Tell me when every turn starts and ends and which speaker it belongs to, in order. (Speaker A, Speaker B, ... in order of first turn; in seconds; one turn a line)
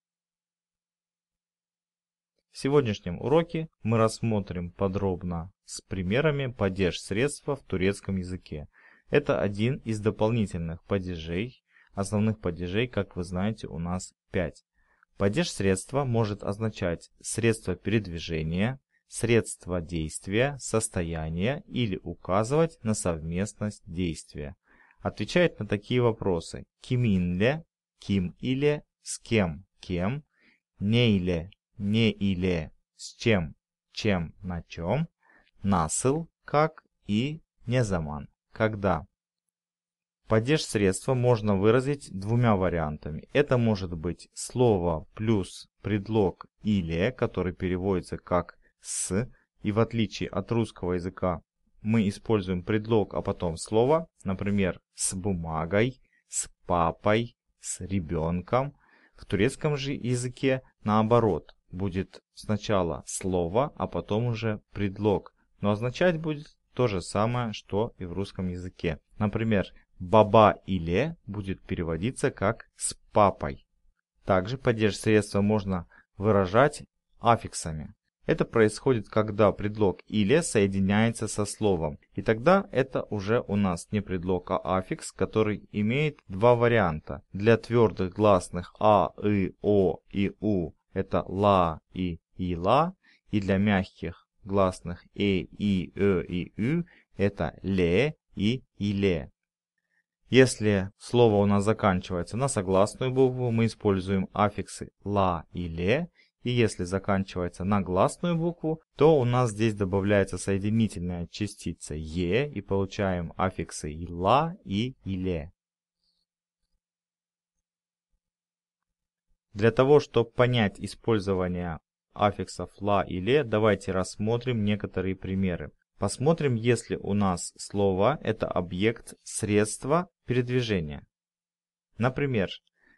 Speaker A: 2.5-14.6
Speaker A: 15.2-30.2
Speaker A: 30.8-35.1
Speaker A: 35.6-39.0
Speaker A: 40.3-73.6
Speaker A: 74.2-99.3
Speaker A: 100.3-115.5
Speaker A: 119.5-131.0
Speaker A: 132.0-132.6